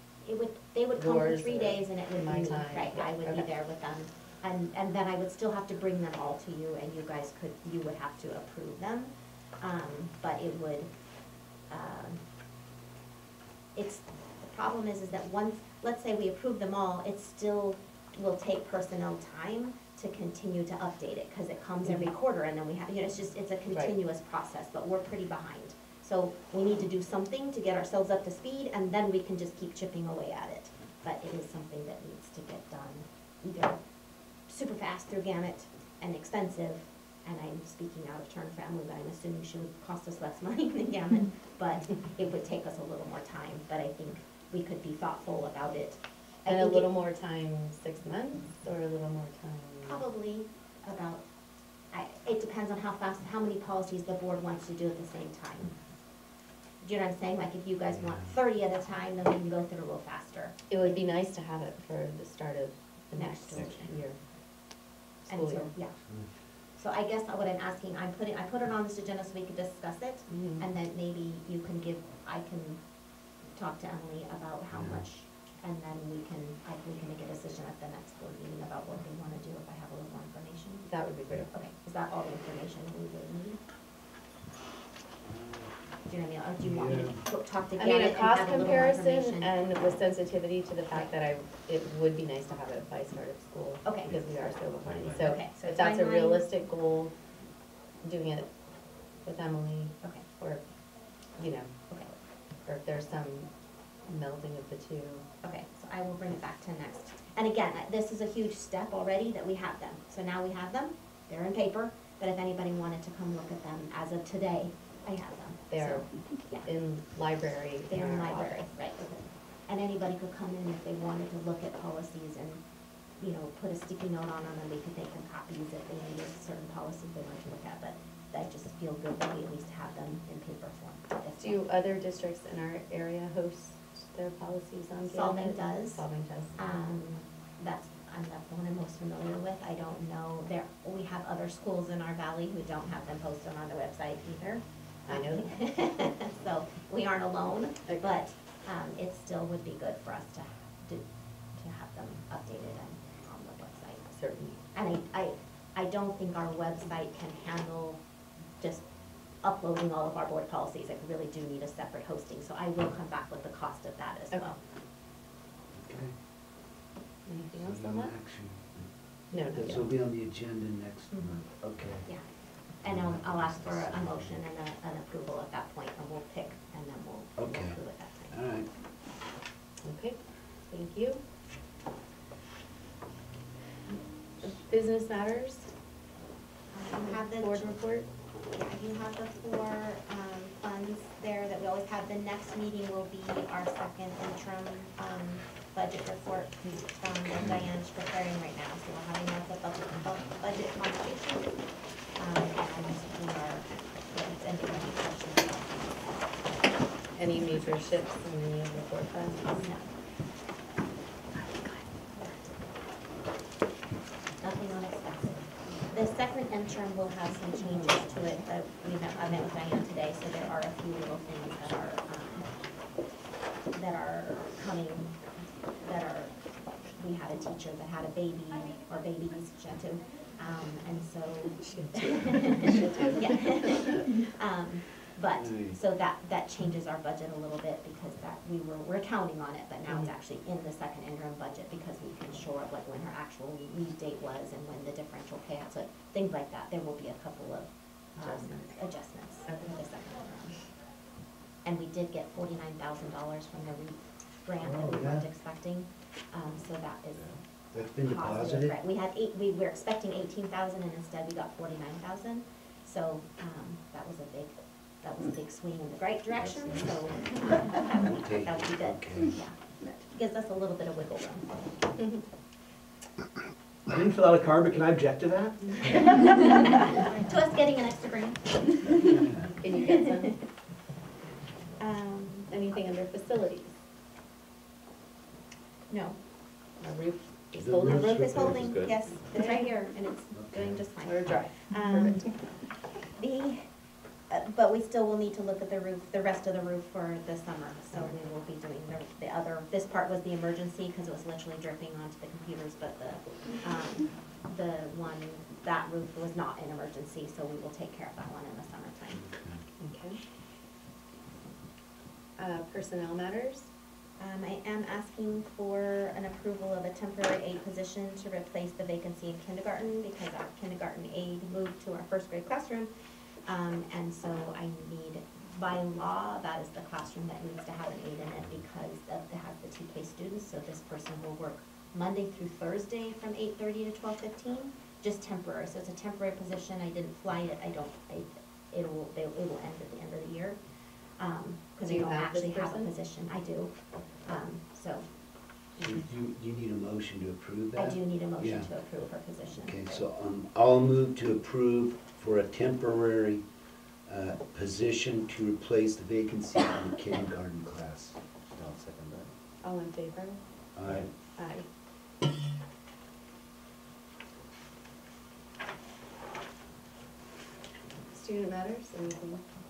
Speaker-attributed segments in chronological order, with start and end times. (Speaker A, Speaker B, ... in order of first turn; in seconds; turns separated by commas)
Speaker A: 0.2-10.9, Speaker B: 1.0-3.5, Speaker A: 11.7-12.2, Speaker A: 13.8-33.8, Speaker B: 21.8-22.1, Speaker A: 34.5-46.9, Speaker B: 46.5-50.0, Speaker A: 49.9-51.2, Speaker A: 51.9-55.7, Speaker A: 56.8-60.5, Speaker C: 57.9-58.4, Speaker B: 60.7-64.2, Speaker A: 63.1-63.9, Speaker B: 65.2-65.7, Speaker A: 65.3-66.0, Speaker A: 66.8-72.8, Speaker B: 70.3-70.7, Speaker A: 73.5-80.9, Speaker C: 74.7-75.1, Speaker B: 80.8-81.5, Speaker A: 81.5-83.6, Speaker C: 85.3-85.7, Speaker A: 86.1-89.5, Speaker C: 86.8-87.2, Speaker B: 87.8-97.1, Speaker A: 93.8-94.2, Speaker A: 94.9-96.5, Speaker B: 98.0-98.5, Speaker B: 99.2-100.6, Speaker B: 101.4-101.8, Speaker B: 102.7-103.5, Speaker B: 104.1-105.3, Speaker A: 105.4-116.7, Speaker B: 115.7-116.1, Speaker B: 116.6-118.7, Speaker A: 117.9-122.6, Speaker A: 123.2-131.6, Speaker B: 131.4-136.5, Speaker A: 135.1-136.1, Speaker A: 136.6-154.1, Speaker B: 145.1-145.5, Speaker B: 147.9-148.2, Speaker B: 154.1-154.6, Speaker A: 154.7-158.0, Speaker A: 158.6-158.9, Speaker A: 159.4-164.6, Speaker C: 165.7-166.2, Speaker B: 167.3-168.1, Speaker C: 167.5-172.1, Speaker B: 169.3-169.9, Speaker A: 172.8-178.4, Speaker C: 172.8-174.4, Speaker C: 177.4-177.8, Speaker C: 178.3-178.7, Speaker B: 179.8-180.2, Speaker B: 180.7-181.2, Speaker B: 184.4-185.7, Speaker A: 186.7-187.8, Speaker B: 187.0-188.1, Speaker A: 188.5-201.6, Speaker A: 202.2-206.6, Speaker B: 207.2-209.7, Speaker A: 209.4-209.9, Speaker A: 211.3-212.4, Speaker A: 214.4-222.5, Speaker A: 223.7-250.6, Speaker B: 231.6-233.5, Speaker C: 235.3-235.8, Speaker B: 248.2-248.8, Speaker A: 251.7-257.3, Speaker C: 254.6-255.3, Speaker D: 257.1-257.4, Speaker C: 257.7-258.8, Speaker A: 258.0-271.5, Speaker D: 266.4-267.1, Speaker C: 267.9-269.4, Speaker E: 273.9-276.6, Speaker A: 276.1-279.0, Speaker C: 279.0-279.5, Speaker B: 279.6-280.3, Speaker A: 279.8-280.4, Speaker A: 281.8-282.5, Speaker B: 282.5-283.8, Speaker A: 285.9-286.2, Speaker B: 286.8-288.6, Speaker C: 287.6-288.9, Speaker A: 287.9-292.4, Speaker D: 287.9-289.0, Speaker B: 289.3-289.7, Speaker C: 290.3-290.9, Speaker B: 291.0-292.3, Speaker A: 293.2-293.7, Speaker A: 294.3-309.2, Speaker C: 309.1-309.6, Speaker B: 309.8-310.2, Speaker B: 312.4-313.7, Speaker A: 314.2-322.9, Speaker A: 323.5-340.6, Speaker A: 341.2-345.1, Speaker B: 341.9-342.9, Speaker C: 345.8-348.7, Speaker A: 347.8-350.0, Speaker C: 349.6-353.4, Speaker C: 354.1-358.2, Speaker D: 358.5-359.3, Speaker B: 359.6-360.4, Speaker C: 360.8-361.1, Speaker B: 361.4-361.6, Speaker B: 368.1-369.4